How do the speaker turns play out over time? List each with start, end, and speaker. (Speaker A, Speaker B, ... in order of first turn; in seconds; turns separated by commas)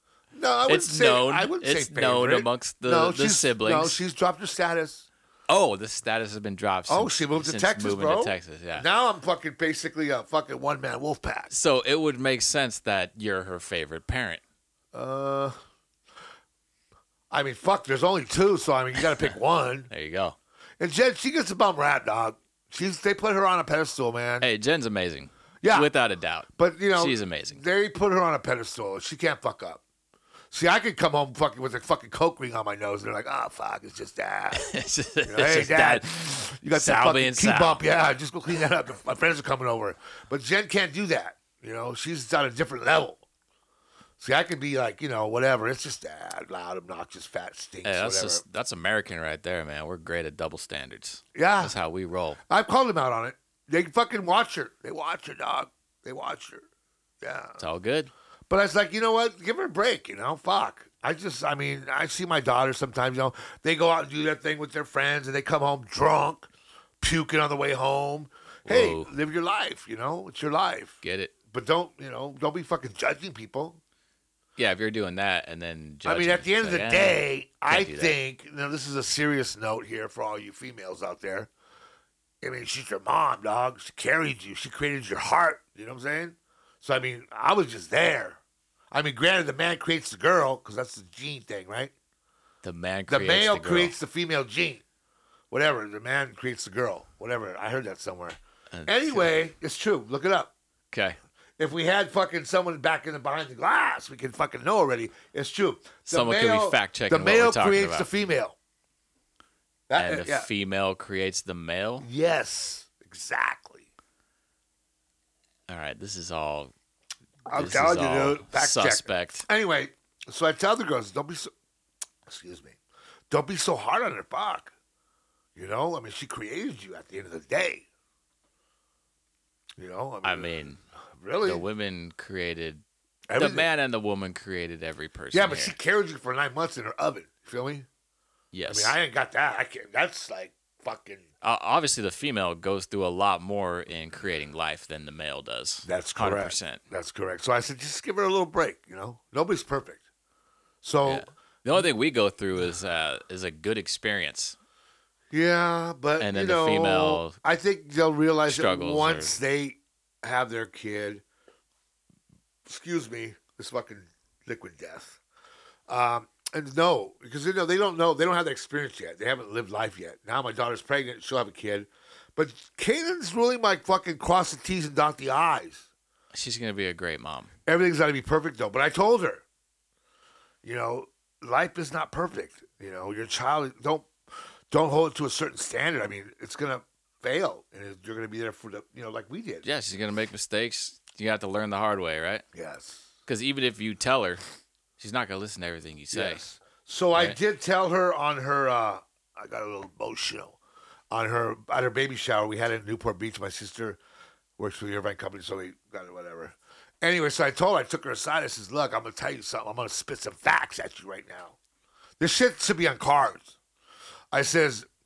Speaker A: 0.3-5.1, Speaker B: 0.7-4.0, Speaker B: 5.5-8.9, Speaker A: 6.9-11.5, Speaker B: 11.5-14.4, Speaker A: 14.9-15.6, Speaker A: 17.3-19.9, Speaker B: 19.9-20.4, Speaker A: 20.8-24.5, Speaker B: 24.4-27.6, Speaker A: 25.6-25.9, Speaker A: 26.6-29.8, Speaker A: 30.5-34.7, Speaker B: 34.5-37.8, Speaker A: 35.3-43.2, Speaker A: 44.2-48.4, Speaker B: 47.8-52.4, Speaker A: 51.4-51.8, Speaker A: 52.5-56.7, Speaker A: 57.2-57.6, Speaker B: 57.6-58.1, Speaker A: 58.5-66.5, Speaker A: 67.0-71.0, Speaker B: 68.7-69.1, Speaker B: 71.0-71.3, Speaker A: 71.5-73.8, Speaker B: 74.6-78.2, Speaker A: 76.0-81.5, Speaker A: 82.4-88.4, Speaker A: 88.9-91.9, Speaker B: 92.6-93.9, Speaker A: 93.1-94.8, Speaker A: 95.5-100.5, Speaker B: 98.7-99.4, Speaker B: 100.9-101.2, Speaker A: 101.6-108.5, Speaker B: 106.0-108.1, Speaker A: 109.9-110.5, Speaker B: 110.0-112.1, Speaker A: 112.0-113.9, Speaker B: 115.7-116.7, Speaker A: 117.5-121.5, Speaker B: 117.5-119.5, Speaker A: 122.3-122.8, Speaker A: 123.3-124.7, Speaker A: 125.5-127.8, Speaker A: 129.8-130.6, Speaker B: 130.2-130.8, Speaker A: 131.2-131.6, Speaker B: 131.4-132.8, Speaker A: 133.3-133.7, Speaker B: 133.4-135.8, Speaker A: 135.3-137.9, Speaker B: 138.5-138.9, Speaker A: 138.7-141.2, Speaker B: 141.4-146.8, Speaker A: 145.9-150.0, Speaker A: 150.8-151.3, Speaker B: 151.1-154.6, Speaker A: 155.3-161.2, Speaker B: 156.2-157.4, Speaker B: 158.5-159.3, Speaker A: 162.6-165.2, Speaker A: 165.9-175.9, Speaker B: 176.3-177.5, Speaker A: 177.7-179.4, Speaker A: 180.6-184.1, Speaker A: 184.7-189.6, Speaker B: 189.6-192.4, Speaker A: 192.5-193.1, Speaker B: 193.3-194.4, Speaker B: 195.0-196.4, Speaker A: 196.1-200.6, Speaker A: 201.1-204.0, Speaker A: 204.6-211.6, Speaker A: 212.2-213.6, Speaker A: 214.3-214.9